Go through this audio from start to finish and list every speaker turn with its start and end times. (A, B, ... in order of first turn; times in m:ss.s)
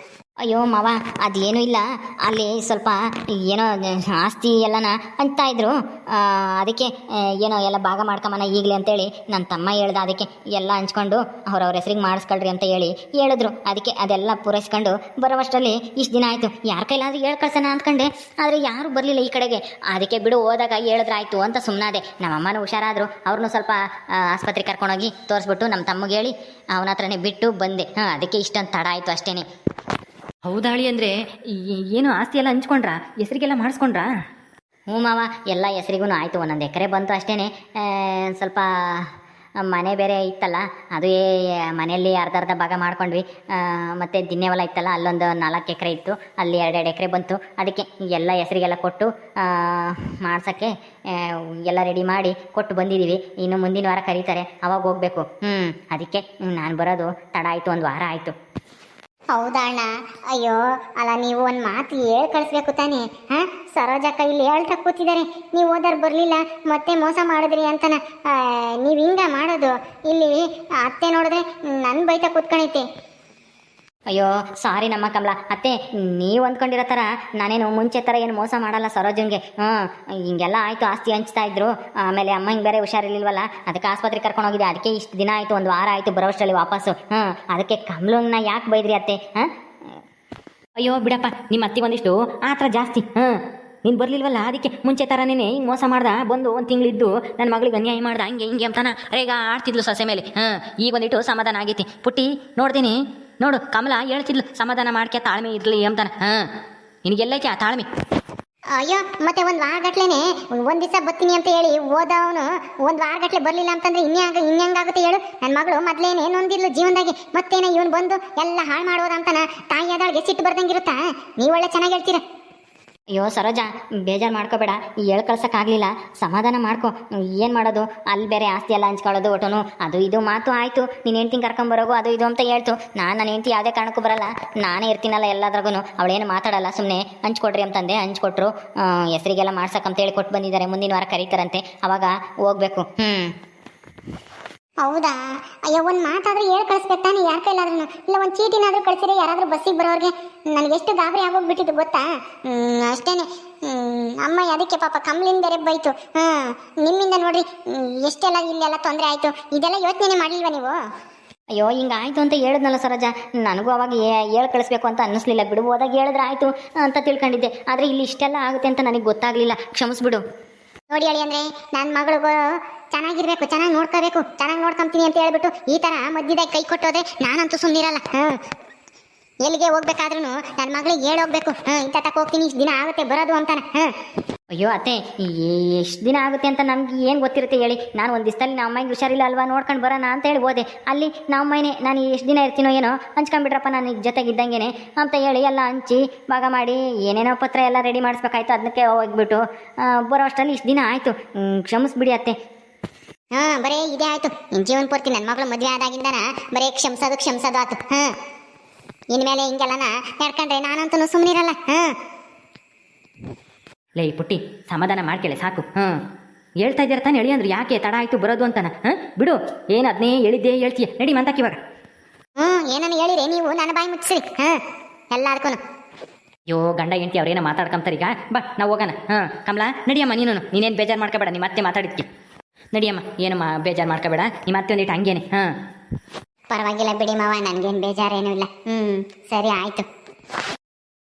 0:00.4-0:29.4 A
0:30.4-0:34.1 B
0:34.9-0:39.1 A
0:39.7-0:58.3 A
0:59.3-1:12.8 C
1:14.1-1:30.0 A
1:30.8-1:33.3 B
1:33.8-1:46.4 B
1:47.0-1:47.8 B
1:48.7-2:02.2 C
2:03.1-2:23.3 A
2:24.8-2:40.7 C
2:41.5-2:50.2 A
2:50.9-2:52.4 C
2:52.9-2:58.4 C
2:59.4-3:03.9 C
3:04.5-3:22.3 A
3:23.3-3:28.1 C
3:29.1-3:32.0 C
3:34.0-3:35.9 B
3:36.6-3:41.6 B
3:42.4-3:44.6 C
3:45.1-3:45.6 C
3:46.5-3:52.1 B
3:52.7-3:55.5 B
3:56.5-3:59.9 C